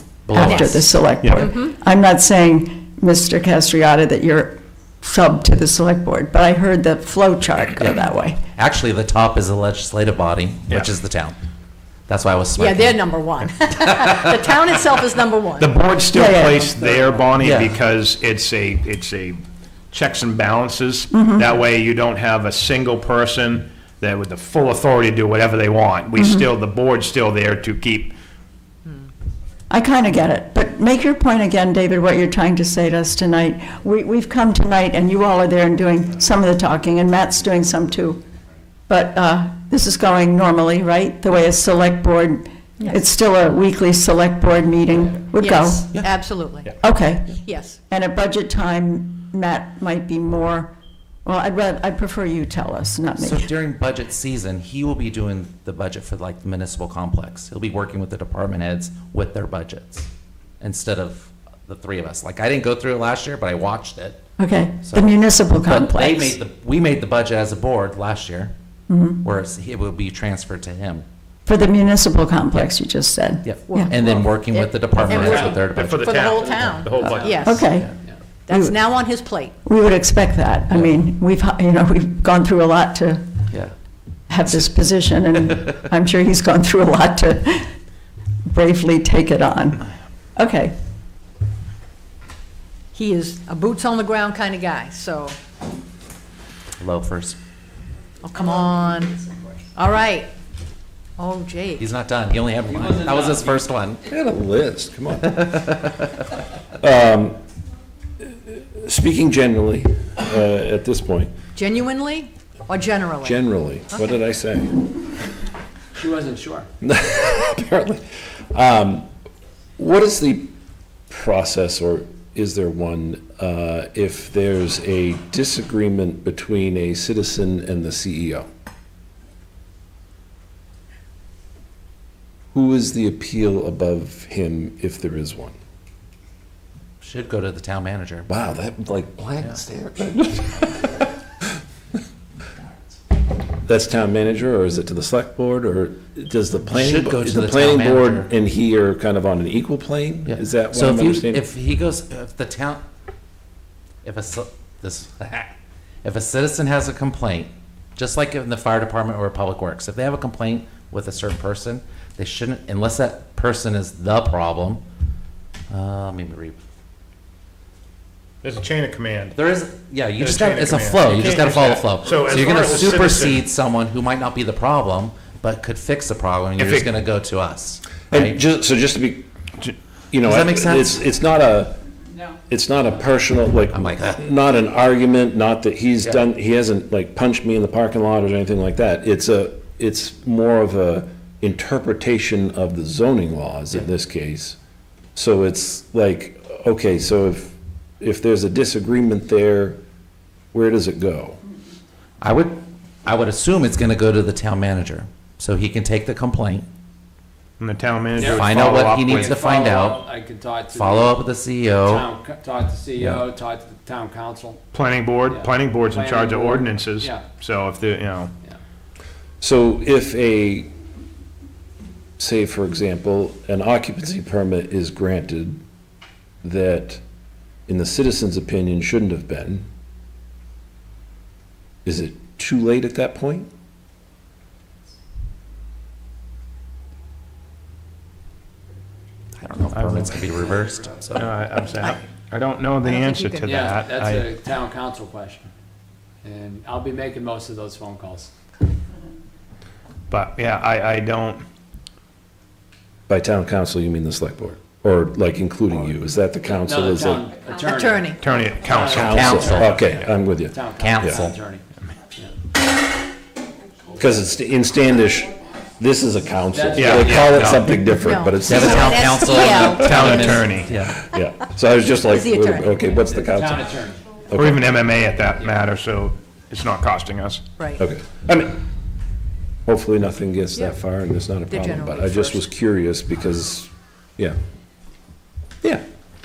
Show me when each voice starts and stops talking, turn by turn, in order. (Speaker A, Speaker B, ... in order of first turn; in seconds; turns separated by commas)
Speaker A: 0.3-0.9, Speaker B: 0.3-8.4, Speaker C: 0.4-0.8, Speaker D: 1.2-1.5, Speaker A: 7.8-11.4, Speaker A: 12.1-13.1, Speaker C: 12.6-15.8, Speaker A: 13.9-14.3, Speaker D: 15.6-28.1, Speaker B: 16.1-16.8, Speaker A: 17.4-17.8, Speaker B: 21.1-21.5, Speaker B: 26.2-26.5, Speaker B: 29.7-38.2, Speaker B: 38.9-45.9, Speaker C: 45.4-46.8, Speaker B: 46.8-50.7, Speaker C: 47.4-47.8, Speaker B: 51.2-53.5, Speaker A: 53.2-60.1, Speaker A: 60.6-64.2, Speaker B: 64.4-66.4, Speaker A: 64.8-68.5, Speaker B: 68.9-69.3, Speaker A: 69.2-71.0, Speaker B: 71.5-73.9, Speaker A: 73.4-76.1, Speaker C: 73.7-77.7, Speaker E: 75.1-75.6, Speaker D: 75.6-77.6, Speaker B: 77.4-77.9, Speaker C: 78.5-79.6, Speaker B: 78.5-78.8, Speaker B: 79.6-83.3, Speaker B: 84.3-87.7, Speaker B: 88.5-90.7, Speaker C: 92.9-95.4, Speaker A: 96.8-97.4, Speaker C: 98.2-99.2, Speaker C: 99.8-100.3, Speaker C: 101.2-101.9, Speaker A: 101.8-104.0, Speaker E: 102.7-103.5, Speaker F: 104.0-105.9, Speaker F: 106.8-107.4, Speaker F: 108.2-111.3, Speaker C: 111.5-114.0, Speaker F: 113.2-114.9, Speaker E: 116.0-116.7, Speaker F: 116.8-119.1, Speaker F: 119.8-120.5, Speaker F: 121.1-128.5, Speaker F: 132.5-135.6, Speaker A: 137.0-138.3, Speaker F: 138.3-141.1, Speaker F: 143.7-151.5, Speaker A: 146.7-148.3, Speaker A: 150.3-152.8, Speaker A: 154.0-164.8, Speaker A: 165.7-166.6, Speaker D: 168.4-169.4, Speaker A: 169.3-178.4, Speaker D: 170.2-173.4, Speaker D: 176.6-176.9, Speaker F: 178.1-179.3, Speaker F: 180.1-181.8, Speaker A: 180.2-181.0, Speaker F: 182.5-194.6, Speaker A: 183.7-184.2, Speaker F: 195.2-199.8, Speaker F: 200.5-201.4, Speaker A: 202.2-206.7, Speaker D: 207.6-209.3, Speaker E: 208.2-211.2, Speaker A: 208.2-210.1, Speaker A: 210.7-212.1, Speaker E: 211.8-214.6, Speaker D: 214.7-218.3, Speaker E: 215.3-217.3, Speaker F: 219.4-220.7, Speaker F: 222.2-225.6, Speaker F: 226.4-227.0, Speaker F: 227.7-229.7, Speaker F: 231.8-233.5, Speaker A: 239.4-241.3, Speaker D: 239.7-240.2, Speaker D: 241.2-244.3, Speaker C: 242.8-243.5, Speaker E: 243.4-245.5, Speaker E: 246.2-248.3, Speaker D: 250.1-251.5, Speaker F: 253.1-257.3, Speaker E: 256.6-261.6, Speaker C: 257.7-258.2, Speaker D: 258.2-259.3, Speaker F: 258.9-261.1, Speaker A: 259.1-259.9, Speaker A: 260.8-261.4, Speaker F: 264.0-270.0, Speaker E: 266.5-267.7, Speaker D: 266.7-267.6, Speaker C: 267.9-270.5, Speaker A: 268.4-271.0, Speaker D: 269.6-270.8, Speaker F: 270.9-273.7, Speaker C: 272.1-272.9, Speaker E: 272.9-274.1, Speaker F: 274.3-274.6, Speaker D: 274.3-277.4, Speaker E: 275.3-275.6, Speaker C: 277.6-277.8, Speaker F: 277.8-278.6, Speaker F: 279.7-284.4, Speaker C: 281.5-282.5